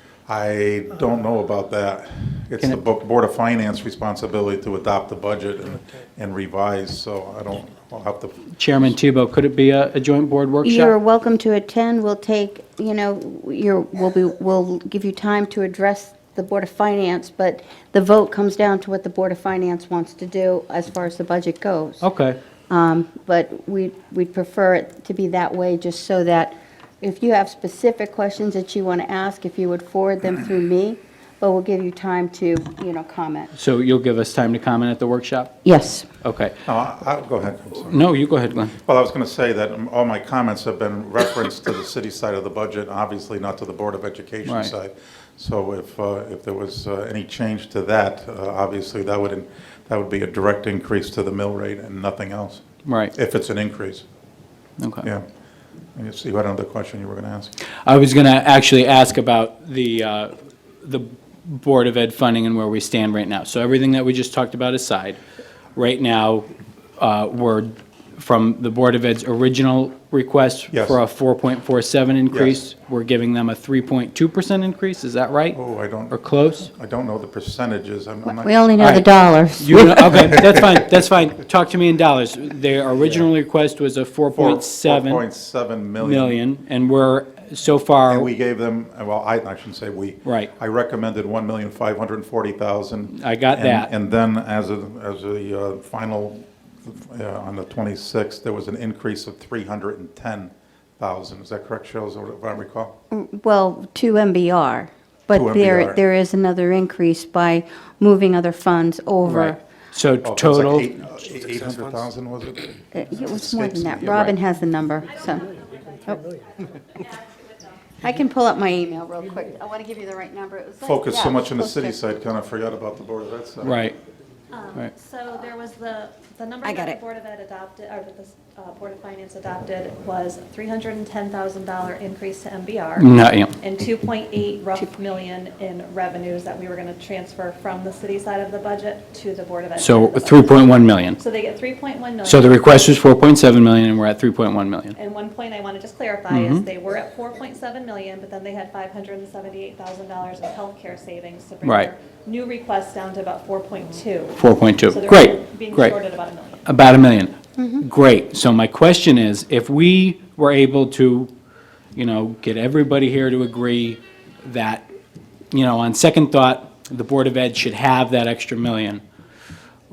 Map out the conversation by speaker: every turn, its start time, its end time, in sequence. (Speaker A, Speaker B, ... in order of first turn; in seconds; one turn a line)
Speaker A: 0.3-8.5
Speaker B: 8.6-10.9
Speaker C: 10.6-22.1
Speaker B: 22.0-22.4
Speaker C: 22.7-33.5
Speaker B: 33.5-35.6
Speaker C: 35.6-36.1
Speaker B: 36.2-36.6
Speaker A: 36.6-38.1
Speaker B: 37.8-38.7
Speaker A: 38.8-54.0
Speaker B: 44.4-44.7
Speaker B: 52.9-53.1
Speaker B: 54.8-55.1
Speaker A: 55.9-57.5
Speaker B: 57.8-65.2
Speaker B: 65.8-66.5
Speaker B: 67.0-75.6
Speaker A: 70.7-71.0
Speaker A: 72.3-72.6
Speaker A: 75.5-78.5
Speaker B: 76.1-76.7
Speaker C: 78.3-80.1
Speaker B: 78.8-79.0
Speaker B: 79.6-85.2
Speaker A: 79.9-80.7
Speaker A: 83.0-83.3
Speaker A: 84.3-86.4
Speaker B: 86.0-88.3
Speaker A: 88.1-103.0
Speaker B: 90.2-90.5
Speaker B: 93.1-93.9
Speaker C: 103.1-109.6
Speaker A: 105.3-106.0
Speaker B: 109.2-110.9
Speaker A: 110.2-114.2
Speaker C: 112.9-115.5
Speaker B: 114.0-114.3
Speaker D: 115.3-117.7
Speaker C: 118.0-122.0
Speaker A: 120.8-123.8
Speaker B: 123.6-124.0
Speaker D: 124.5-142.7
Speaker C: 126.6-127.0
Speaker B: 133.0-133.5
Speaker B: 139.8-141.2
Speaker B: 142.2-144.9
Speaker D: 144.9-156.6
Speaker B: 146.3-146.7
Speaker B: 151.6-151.9
Speaker B: 154.3-155.9
Speaker B: 156.7-161.3
Speaker C: 157.6-157.8
Speaker B: 161.9-164.9
Speaker B: 165.5-169.0